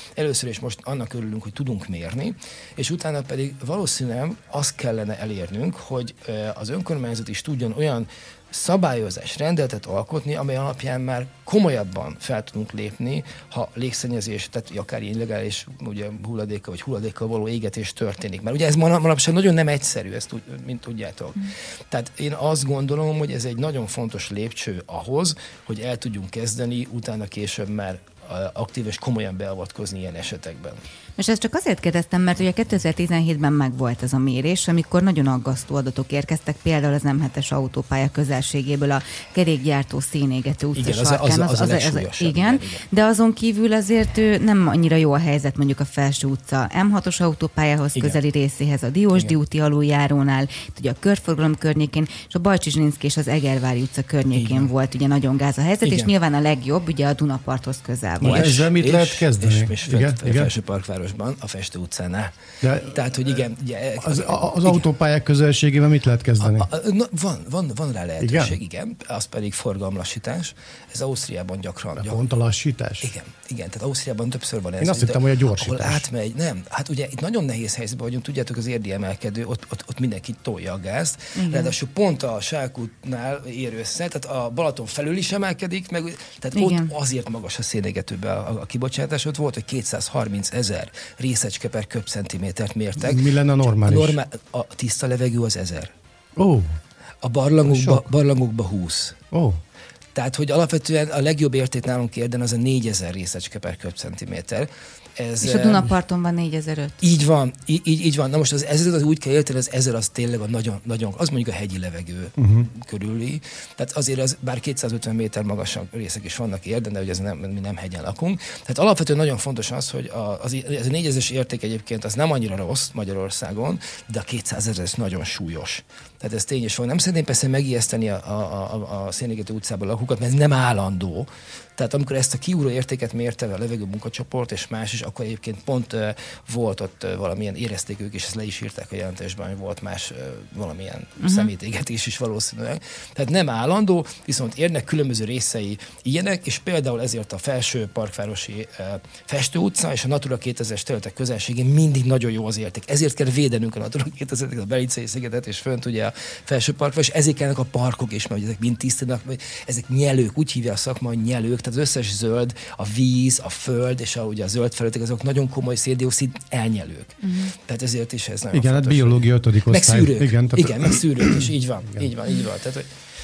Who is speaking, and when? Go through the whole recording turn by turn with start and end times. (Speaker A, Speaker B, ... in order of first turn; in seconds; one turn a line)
Speaker A: 0.2-30.8
Speaker B: 31.2-58.6
Speaker A: 40.8-42.8
Speaker A: 54.3-54.7
Speaker A: 55.8-56.1
Speaker C: 58.2-60.5
Speaker A: 58.2-64.9
Speaker C: 62.6-63.0
Speaker C: 64.0-66.7
Speaker A: 66.4-72.2
Speaker C: 68.2-68.6
Speaker C: 72.0-73.1
Speaker A: 73.0-95.9
Speaker C: 74.8-76.0
Speaker B: 81.4-81.7
Speaker B: 86.5-86.9
Speaker C: 93.0-94.2
Speaker C: 96.4-96.7
Speaker A: 97.2-99.2
Speaker C: 97.7-98.0
Speaker C: 99.3-99.6
Speaker A: 100.2-105.9
Speaker B: 105.4-107.0
Speaker A: 107.0-172.9
Speaker C: 112.4-112.7
Speaker B: 141.2-141.5
Speaker B: 167.2-167.5
Speaker C: 168.5-172.0